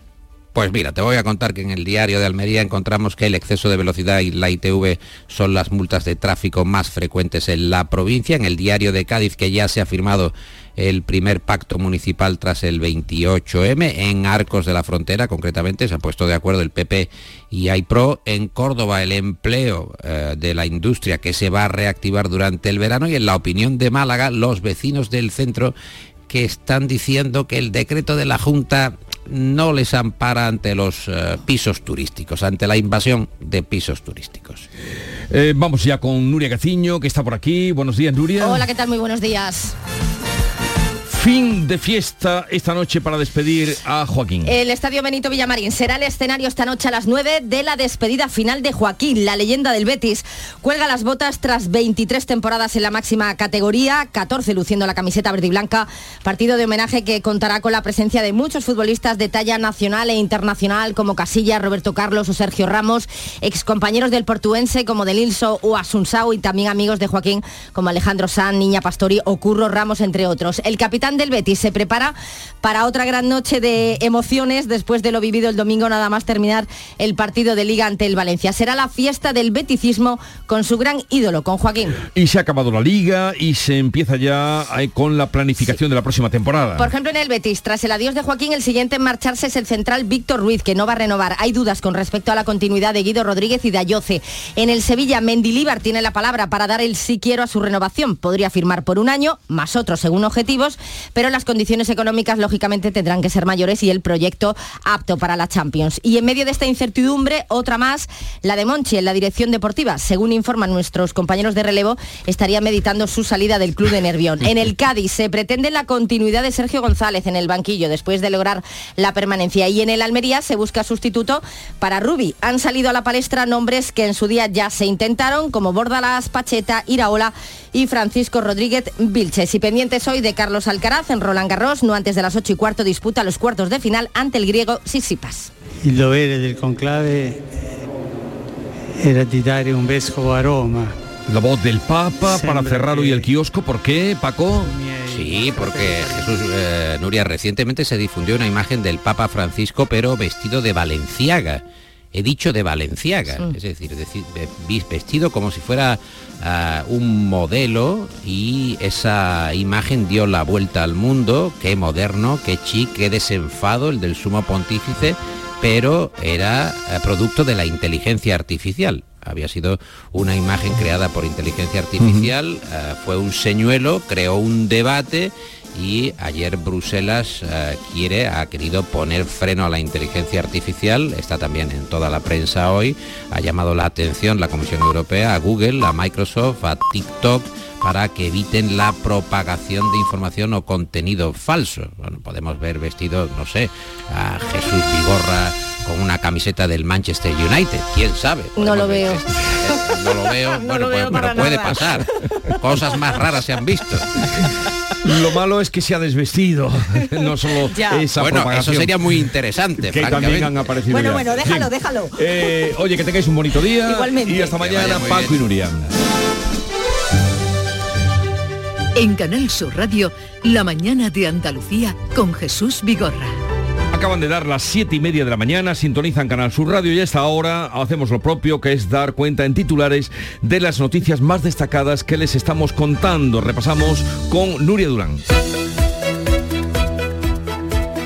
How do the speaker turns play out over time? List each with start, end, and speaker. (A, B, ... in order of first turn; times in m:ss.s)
0:00.6-0:25.7 A
0:26.3-0:34.7 A
0:35.3-0:38.7 B
0:38.4-0:39.7 C
0:41.1-0:44.5 B
0:44.4-1:22.0 C
1:22.1-1:26.9 B
1:26.8-2:15.5 C
2:15.8-2:17.7 D
2:18.9-2:21.0 D
2:21.3-2:24.8 B
2:22.2-2:23.3 D
2:24.6-2:26.3 D
2:25.1-2:31.6 A
2:32.1-3:22.1 A
2:52.0-2:52.3 B
3:18.6-3:19.2 C
3:22.6-3:24.1 A
3:25.0-3:29.2 B
3:28.1-3:30.6 A
3:29.8-3:35.9 B
3:34.0-3:34.4 C
3:34.6-3:35.3 A
3:39.0-3:43.4 E
3:43.9-3:55.2 B